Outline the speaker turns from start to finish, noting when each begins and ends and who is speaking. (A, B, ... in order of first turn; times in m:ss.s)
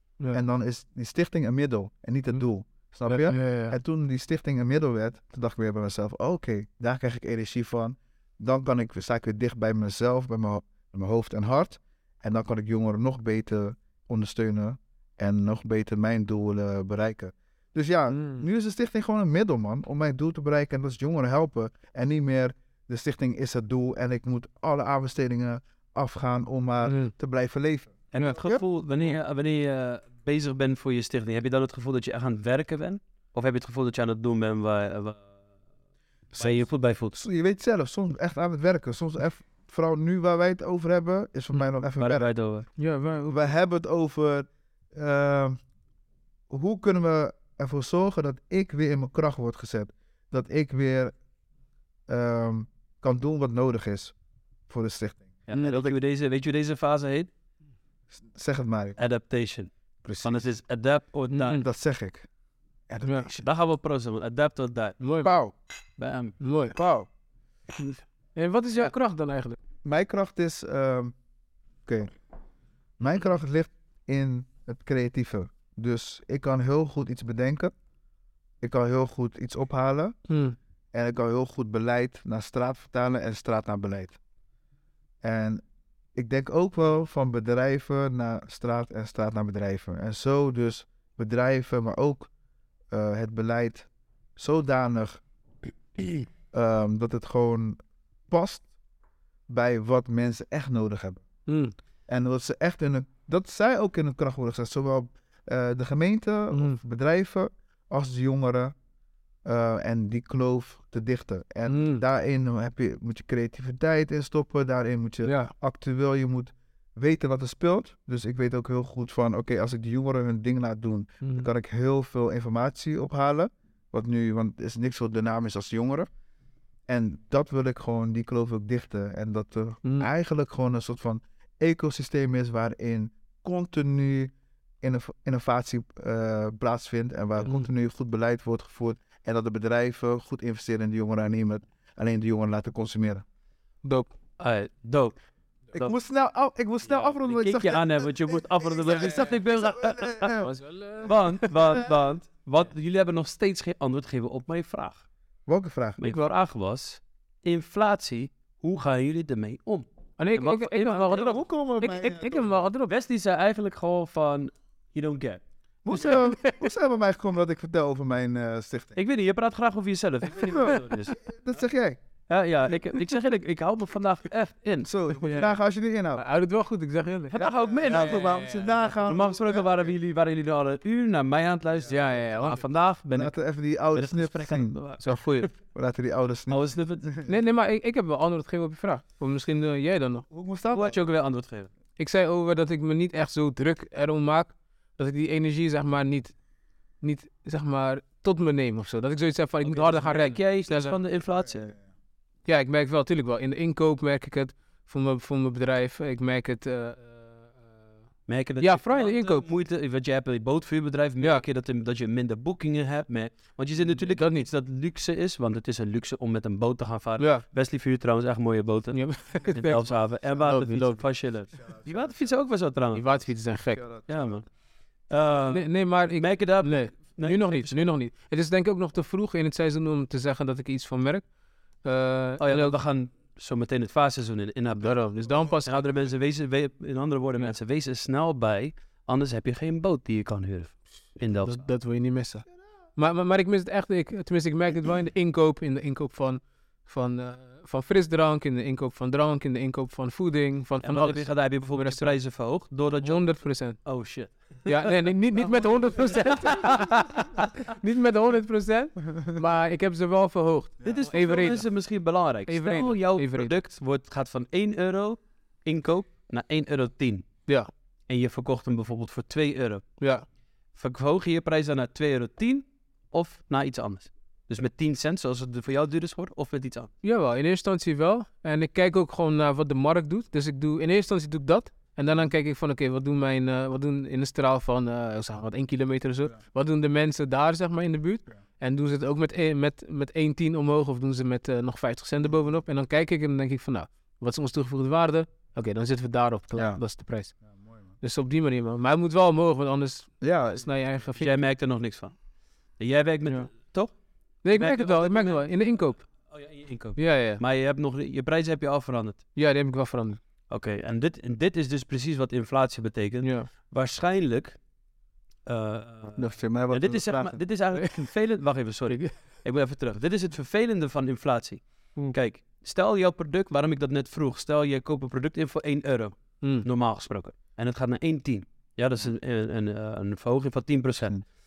0:00.3-0:28.6 A
0:03.1-0:03.8 B
0:18.1-0:18.4 B
0:26.8-0:27.1 B
0:28.1-0:35.2 C
0:36.4-0:37.2 C
0:37.1-0:42.2 A
0:42.0-0:42.6 C
0:42.8-0:43.3 B
0:43.2-0:45.6 A
0:46.5-0:51.1 A
0:52.1-0:54.1 A
0:54.7-0:55.9 A
0:55.5-0:57.3 C
0:58.2-0:59.0 A
0:59.0-0:59.7 C
1:00.0-1:00.4 A
1:00.2-1:01.6 C
1:01.3-1:01.6 B
1:01.6-1:02.3 A
1:02.9-1:03.4 A
1:03.4-1:05.0 C
1:05.0-1:05.3 B
1:05.2-1:05.5 A
1:06.0-1:06.4 C
1:06.4-1:06.8 B
1:06.7-1:07.1 A
1:08.3-1:09.6 B
1:09.8-1:11.1 A
1:11.8-1:12.1 A
1:13.0-1:17.7 A
1:18.6-1:20.2 A
1:20.3-1:20.6 B
1:20.9-1:24.2 A
1:25.2-1:25.6 A
1:26.1-1:32.3 A
1:32.9-1:35.2 A
1:36.5-1:37.8 A
1:38.3-1:38.6 A
1:39.5-1:41.2 A
1:41.5-1:41.7 B
1:42.1-1:48.7 A
1:46.5-1:46.8 B
1:49.4-2:06.1 A
1:51.7-1:52.0 B
1:55.2-1:55.5 B
2:01.2-2:01.5 B
2:06.9-2:23.2 A
2:23.8-2:24.1 B
2:24.4-2:25.2 C
2:25.7-2:30.5 A
2:26.8-2:30.4 C
2:30.4-2:31.8 B
2:31.0-2:35.0 C
2:35.5-2:36.0 A
2:36.0-2:41.3 C
2:40.2-2:42.9 B
2:41.2-2:42.6 A
2:42.9-2:45.4 C
2:45.8-2:49.0 A
2:45.9-2:46.6 B
2:49.0-2:51.2 C
2:50.4-2:52.0 A
2:52.3-2:55.5 C
2:54.8-2:56.2 A
2:56.1-2:59.0 B
2:57.3-2:58.5 C
2:57.4-2:59.6 A
2:59.0-3:03.3 C
3:01.9-3:02.6 B
3:03.1-3:04.8 A
3:03.9-3:05.5 C
3:05.0-3:05.5 B
3:05.7-3:06.6 A
3:06.5-3:07.1 C
3:07.2-3:10.2 B
3:10.3-3:11.0 A
3:10.7-3:11.7 C
3:12.0-3:16.3 B
3:17.0-3:21.0 B
3:19.6-3:21.7 C
3:22.4-3:27.5 B
3:28.3-3:43.0 C
3:28.6-3:29.4 B
3:33.9-3:34.5 B
3:37.2-3:37.4 B
3:38.9-3:41.0 B
3:41.6-3:42.3 A
3:42.9-3:43.8 B
3:43.8-3:44.3 A
3:44.1-3:44.4 C
3:45.1-3:47.8 C
3:45.5-3:51.2 B
3:51.8-3:52.8 B
3:52.4-3:55.0 C
3:54.8-3:55.8 B
3:55.6-4:01.6 C
4:01.4-4:02.4 B
4:03.0-4:12.2 B
4:10.8-4:17.5 C
4:13.0-4:13.8 B
4:14.6-4:21.6 B
4:20.8-4:27.2 C
4:22.5-4:23.5 B
4:28.1-4:29.8 C
4:30.0-4:30.2 B
4:30.7-4:36.9 C
4:37.0-4:57.3 B
4:56.5-4:56.8 A
4:57.5-4:57.8 A
4:58.0-5:01.3 B
5:00.2-5:00.6 A
5:01.2-5:02.1 C
5:02.8-5:03.9 C
5:04.4-5:06.0 B
5:04.5-5:09.2 C
5:07.0-5:07.4 B
5:09.3-5:10.2 B
5:10.5-5:14.6 C
5:13.2-5:13.5 B
5:15.4-5:31.2 C
5:16.2-5:17.4 A
5:17.7-5:18.0 B
5:18.9-5:19.1 B
5:26.4-5:26.7 B